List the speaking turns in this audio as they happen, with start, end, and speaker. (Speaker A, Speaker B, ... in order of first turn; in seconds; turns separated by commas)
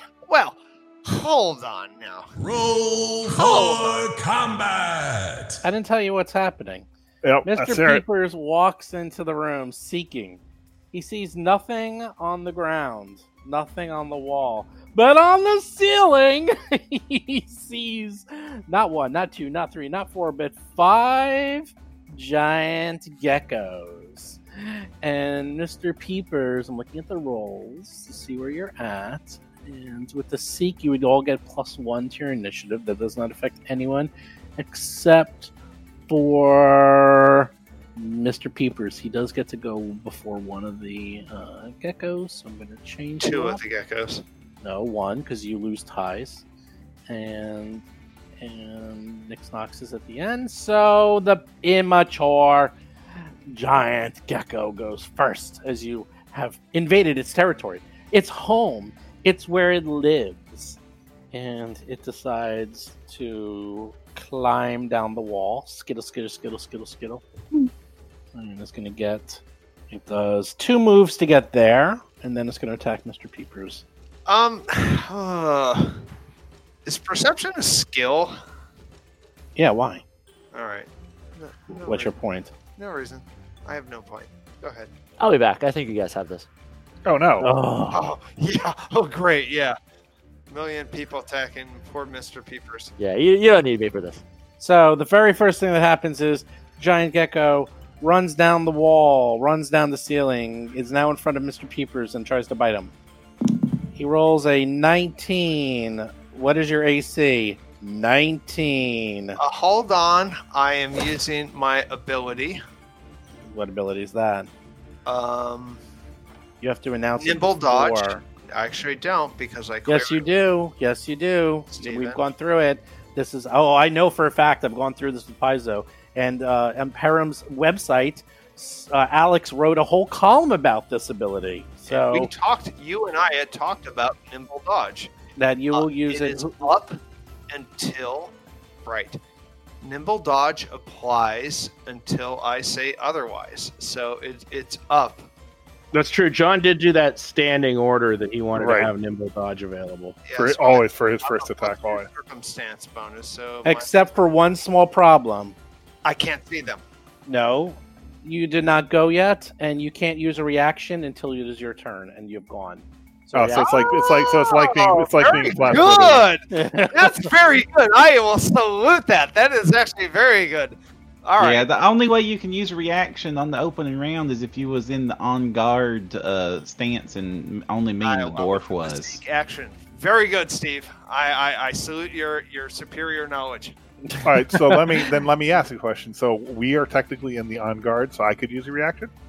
Speaker A: 0.3-2.3, Speaker B: 2.4-5.6, Speaker A: 3.3-4.0, Speaker C: 5.6-6.9, Speaker D: 7.2-8.0, Speaker C: 7.4-10.4, Speaker C: 10.9-35.5, Speaker C: 36.1-43.6, Speaker A: 43.2-44.2, Speaker C: 44.6-46.4, Speaker C: 47.1-47.8, Speaker C: 48.4-52.8, Speaker C: 53.5-60.8, Speaker C: 61.3-67.2, Speaker C: 68.3-73.8, Speaker A: 74.3-76.0, Speaker A: 76.8-78.3, Speaker C: 79.5-80.0, Speaker A: 80.5-82.1, Speaker C: 81.8-82.5, Speaker A: 82.8-84.9, Speaker E: 85.2-86.5, Speaker D: 87.0-87.5, Speaker C: 87.4-88.1, Speaker A: 87.9-89.8, Speaker A: 90.5-92.9, Speaker E: 93.0-94.2, Speaker C: 94.6-102.9, Speaker C: 103.9-109.4, Speaker A: 109.4-112.6, Speaker C: 113.5-114.5, Speaker A: 115.0-115.8, Speaker C: 116.6-118.2, Speaker A: 117.2-120.3, Speaker C: 119.8-132.3, Speaker A: 121.7-122.2, Speaker A: 131.9-135.1, Speaker C: 135.4-136.7, Speaker A: 135.7-137.0, Speaker A: 137.5-138.3, Speaker A: 138.8-139.2, Speaker A: 139.8-145.3, Speaker F: 145.9-150.2, Speaker D: 148.6-148.9, Speaker A: 150.2-154.1, Speaker D: 150.3-152.1, Speaker C: 153.6-155.5, Speaker A: 156.0-156.8, Speaker C: 157.3-163.7, Speaker D: 163.3-166.3, Speaker A: 163.5-171.7, Speaker C: 166.5-167.3, Speaker G: 171.4-179.2, Speaker A: 178.0-183.7, Speaker C: 184.1-185.0, Speaker D: 184.2-189.1